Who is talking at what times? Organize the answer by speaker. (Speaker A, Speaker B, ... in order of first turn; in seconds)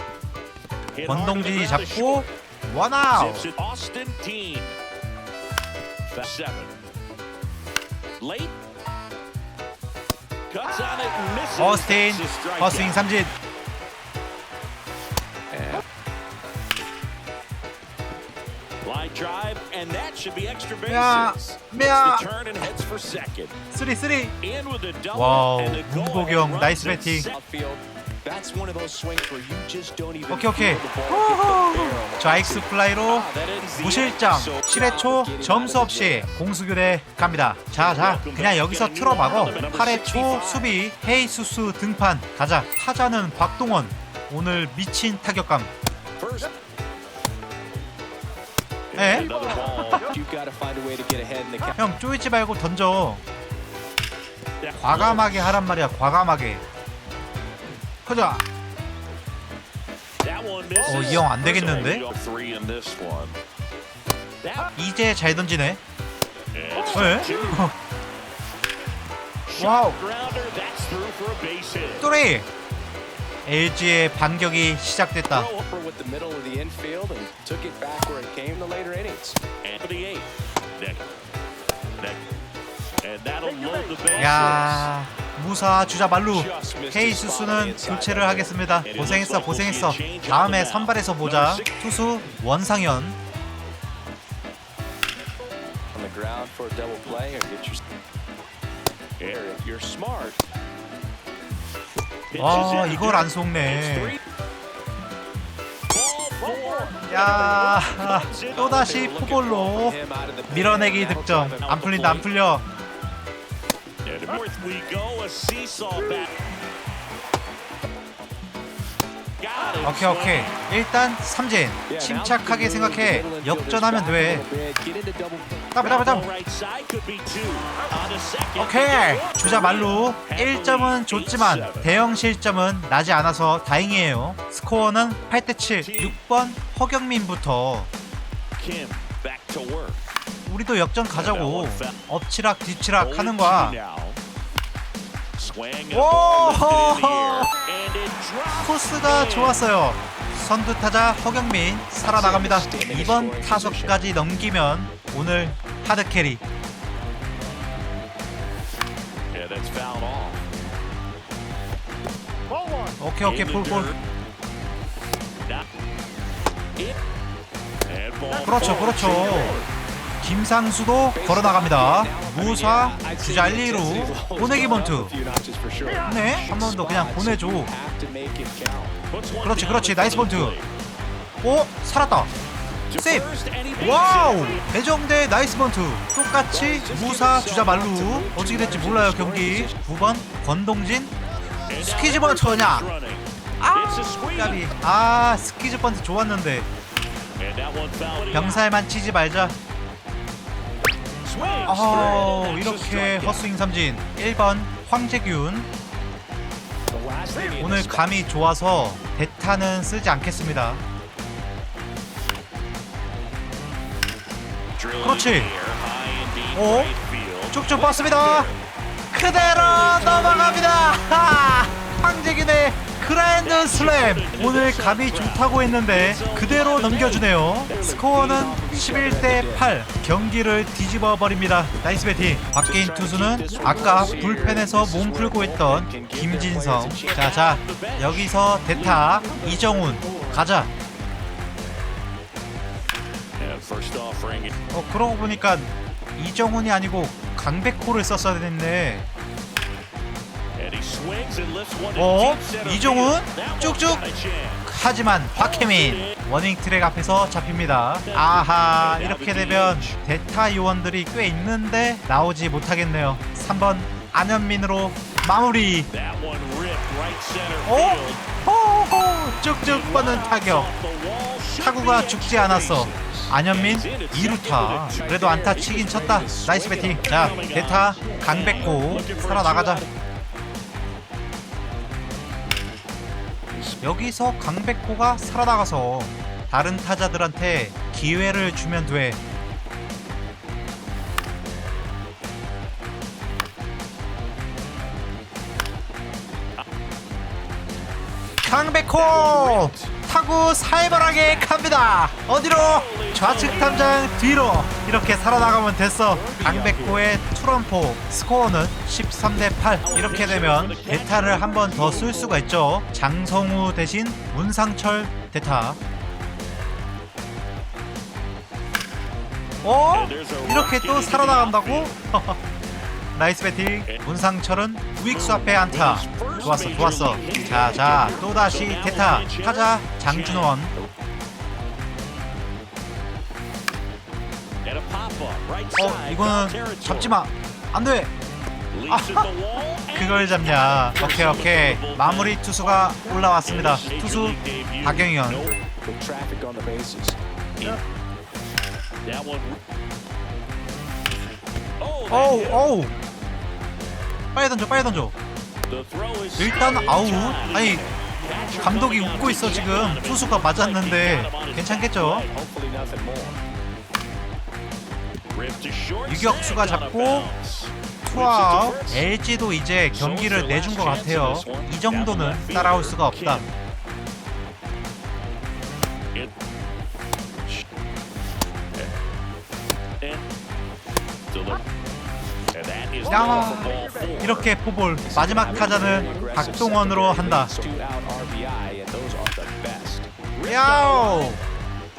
Speaker A: 0.9-2.3, 3.1-4.8, 6.1-6.8, 8.2-8.5, 10.5-13.0, 15.5-15.8, 18.8-23.6, 24.4-27.4, 33.1-34.1, 37.7-40.6, 46.2-46.5, 48.9-50.1, 54.6-55.6, 60.2-63.4, 64.4-64.7, 66.5-67.7, 69.5-72.1, 79.6-81.1, 83.0-84.9, 88.8-91.8, 99.2-99.5, 102.3-104.2, 105.9-109.0, 114.0-116.3, 119.4-120.6, 125.8-131.9, 135.8-136.2, 138.6-140.0, 141.1-142.0, 143.0-144.2, 145.4-149.6, 159.3-160.4, 163.2-163.9, 167.9-169.7, 179.1-180.7, 182.9-184.7, 191.7-194.7, 197.4-198.6, 201.2-203.5, 214.8-218.6, 219.3-220.7, 223.4-227.3, 233.4-234.4, 237.0-240.3, 243.4-244.5, 250.6-254.7, 255.3-256.2, 258.1-260.0, 265.9-268.3, 269.6-275.1, 277.0-279.9, 283.5-283.8, 299.0-299.9, 301.1-301.5, 302.5-304.0, 309.8-312.4, 319.9-322.0, 325.0-330.9, 334.6-337.2, 338.7-345.6, 349.0-349.6, 351.8-352.8, 355.7-362.3, 365.3-369.1, 369.9-373.5, 381.3-381.6, 382.5-384.5, 390.4-391.4
Speaker B: 1.1-3.5, 11.6-13.3, 20.9-22.2, 23.7-24.3, 25.1-27.3, 30.3-45.7, 49.0-49.8, 51.8-53.2, 54.8-56.6, 58.0-58.4, 60.9-62.0, 64.8-65.8, 66.9-67.7, 69.6-70.0, 72.0-72.5, 73.5-75.5, 84.2-93.2, 102.4-104.2, 107.1-110.0, 110.5-112.7, 119.8-124.5, 125.7-126.3, 128.6-137.9, 140.5-143.8, 145.9-147.5, 148.6-156.4, 163.0-163.9, 168.4-169.6, 170.2-175.1, 176.0-177.7, 179.4-180.6, 181.4-182.3, 183.0-183.3, 183.8-191.1, 191.8-192.9, 193.6-196.7, 198.3-199.6, 201.7-205.7, 207.6-210.8, 215.0-215.5, 216.6-216.9, 217.5-218.5, 219.1-240.7, 244.7-249.1, 252.0-254.1, 254.7-265.9, 267.7-270.7, 271.6-279.8, 283.8-289.2, 298.4-315.8, 319.6-322.4, 323.1-330.7, 335.8-338.1, 338.9-339.3, 339.9-345.5, 352.1-352.9, 354.4-355.1, 356.4-357.8, 358.6-362.2, 366.1-367.3, 368.1-373.5, 383.1-387.5, 390.4-391.4
Speaker C: 27.3-36.3, 39.6-40.6, 49.4-51.8, 75.3-79.4, 86.3-88.6, 95.9-97.8, 99.2-100.4, 108.6-112.3, 121.9-125.6, 152.0-154.0, 171.1-179.0, 186.5-189.8, 206.9-208.3, 227.7-229.7, 232.6-237.4, 274.9-277.6, 306.1-307.2, 345.7-347.7, 362.0-363.4, 385.1-390.1